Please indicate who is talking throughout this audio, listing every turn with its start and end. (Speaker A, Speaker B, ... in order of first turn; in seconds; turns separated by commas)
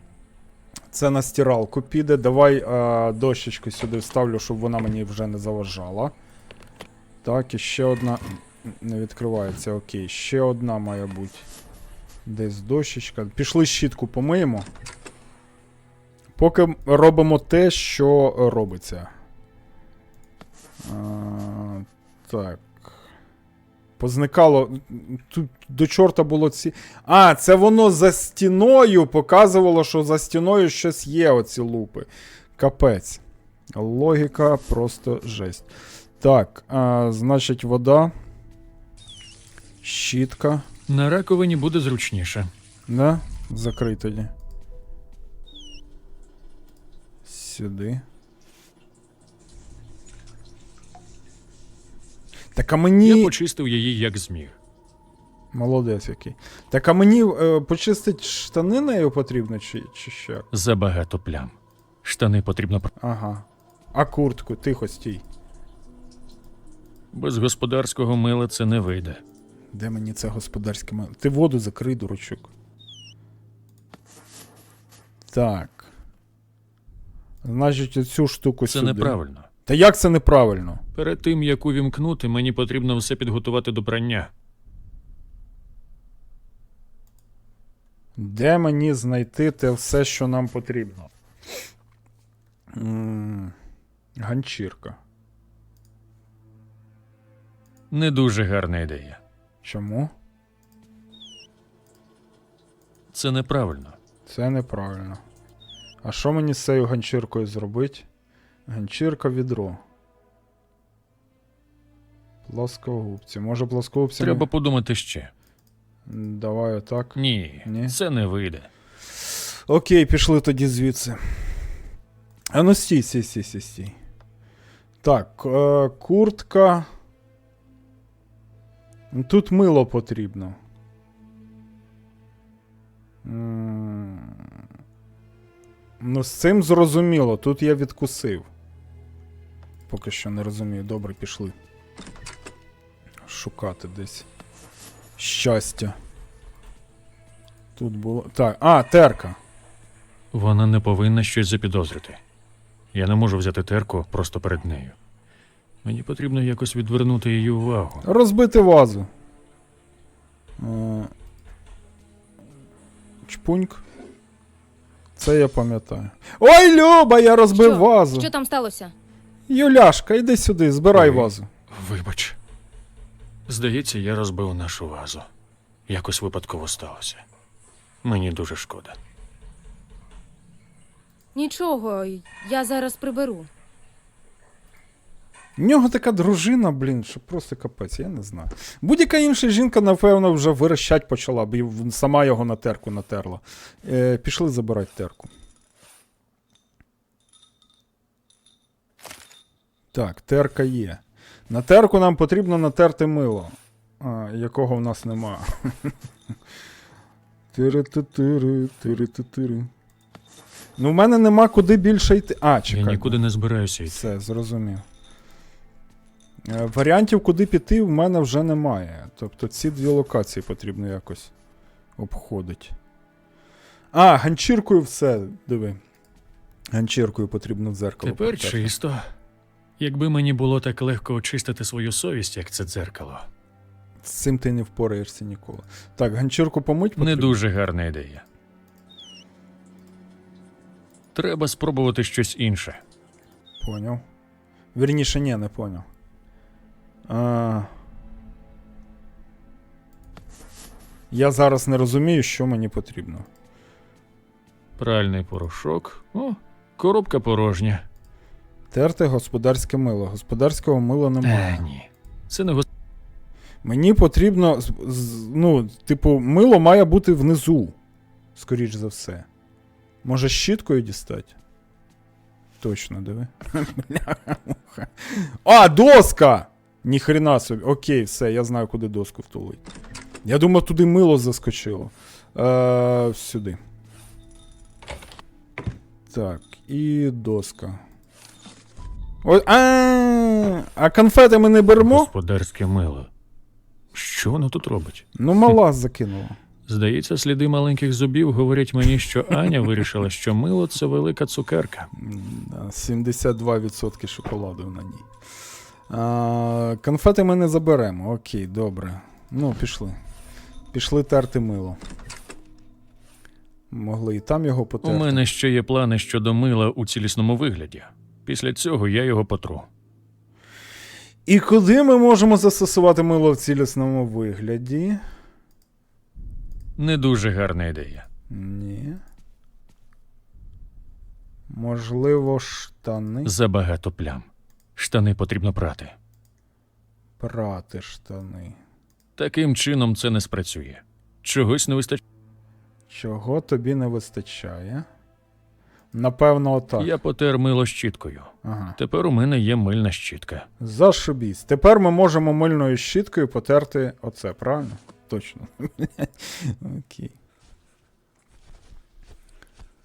Speaker A: 0.9-6.1, Speaker A: 7.2-11.5, Speaker A: 12.2-14.7, Speaker A: 16.4-19.1, Speaker A: 20.8-23.1, Speaker A: 24.0-33.2, Speaker A: 33.7-38.1, Speaker A: 39.8-40.6, Speaker B: 40.9-42.5, Speaker A: 42.9-44.3, Speaker A: 47.2-48.0, Speaker A: 52.5-53.3, Speaker B: 53.0-54.6, Speaker A: 55.5-60.5, Speaker B: 60.5-62.9, Speaker A: 63.0-65.2, Speaker B: 67.1-69.2, Speaker A: 69.7-72.5, Speaker A: 75.3-75.9, Speaker A: 77.4-80.8, Speaker B: 78.7-79.5, Speaker B: 80.9-84.3, Speaker A: 88.2-91.1, Speaker A: 92.7-93.5, Speaker A: 94.2-95.0, Speaker B: 97.9-99.2, Speaker A: 99.6-100.1, Speaker B: 103.1-104.0, Speaker A: 104.2-105.2, Speaker A: 106.0-108.1, Speaker A: 108.7-109.8, Speaker A: 112.5-114.5, Speaker B: 114.2-115.3, Speaker A: 116.0-118.0, Speaker B: 117.1-118.7, Speaker A: 119.3-121.7, Speaker A: 122.5-124.0, Speaker A: 125.0-126.9, Speaker A: 129.1-130.6, Speaker A: 133.2-134.5, Speaker A: 136.0-138.5, Speaker A: 139.9-141.5, Speaker A: 143.2-144.3, Speaker A: 145.2-146.0, Speaker A: 147.8-149.4, Speaker B: 150.3-152.2, Speaker B: 152.9-155.0, Speaker B: 155.8-158.1, Speaker A: 158.0-159.1, Speaker A: 160.6-161.1, Speaker A: 163.2-163.8, Speaker A: 165.2-168.3, Speaker C: 167.5-168.9, Speaker A: 169.5-171.5, Speaker B: 170.9-172.4, Speaker B: 173.5-175.3, Speaker B: 175.9-177.2, Speaker B: 178.0-179.0, Speaker C: 181.3-183.5, Speaker A: 185.6-195.3, Speaker A: 199.9-205.9, Speaker A: 207.5-209.7, Speaker A: 210.8-213.2, Speaker B: 212.7-214.0, Speaker A: 213.9-214.8, Speaker A: 216.4-221.3, Speaker A: 222.0-222.8, Speaker A: 223.9-225.8, Speaker A: 226.7-228.7, Speaker B: 228.0-229.1, Speaker B: 229.8-233.3, Speaker A: 234.0-237.4, Speaker B: 237.0-238.2, Speaker B: 241.1-242.8, Speaker A: 243.6-244.0, Speaker A: 244.7-245.9, Speaker A: 247.1-247.7, Speaker A: 251.1-253.3, Speaker B: 254.8-257.8, Speaker A: 258.7-261.6, Speaker B: 261.2-262.6, Speaker A: 263.6-267.8, Speaker A: 268.3-269.2, Speaker A: 270.0-271.3, Speaker A: 272.6-279.6, Speaker A: 280.2-283.6, Speaker A: 286.1-287.8, Speaker A: 289.2-292.1, Speaker B: 291.8-293.1, Speaker B: 293.9-295.0, Speaker A: 295.1-296.4, Speaker B: 296.7-301.9, Speaker A: 301.9-305.1, Speaker A: 305.9-310.0, Speaker A: 310.7-311.8, Speaker A: 313.7-315.2, Speaker B: 314.8-319.7, Speaker A: 321.2-325.0, Speaker B: 326.8-328.1, Speaker A: 328.3-329.0, Speaker A: 331.5-333.3, Speaker B: 333.2-335.9, Speaker A: 337.2-338.6, Speaker B: 339.2-342.0, Speaker A: 342.9-344.9, Speaker A: 345.9-346.9, Speaker B: 346.8-350.5, Speaker A: 348.4-348.8, Speaker A: 350.6-357.1